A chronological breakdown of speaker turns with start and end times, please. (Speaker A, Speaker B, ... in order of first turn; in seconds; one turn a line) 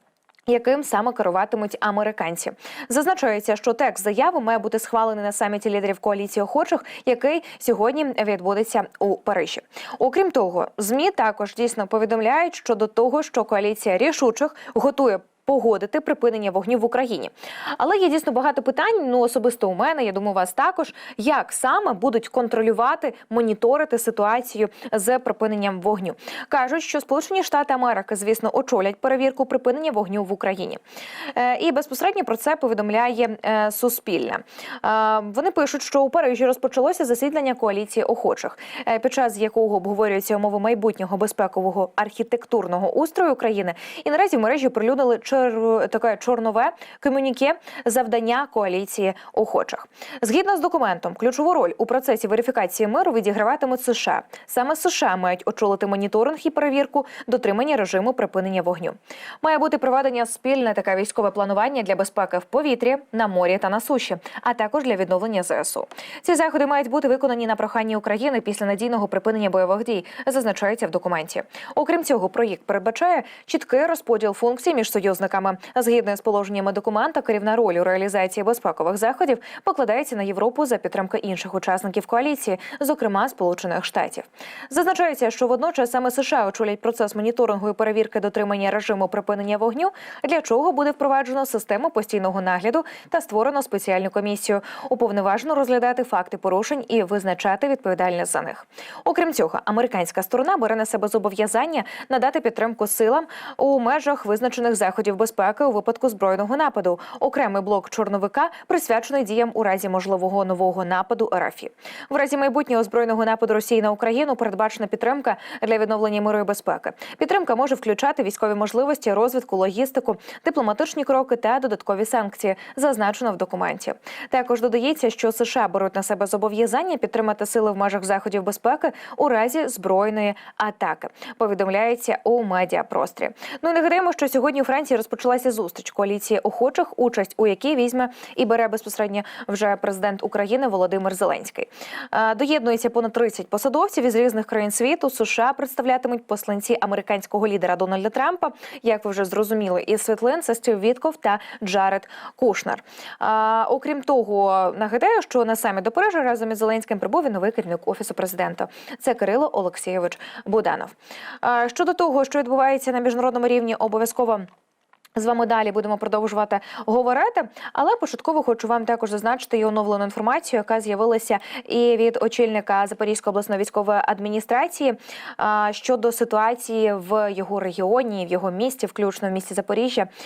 Speaker A: 0.5-30.8
Speaker A: 31.3-164.4
Speaker A: 165.1-180.1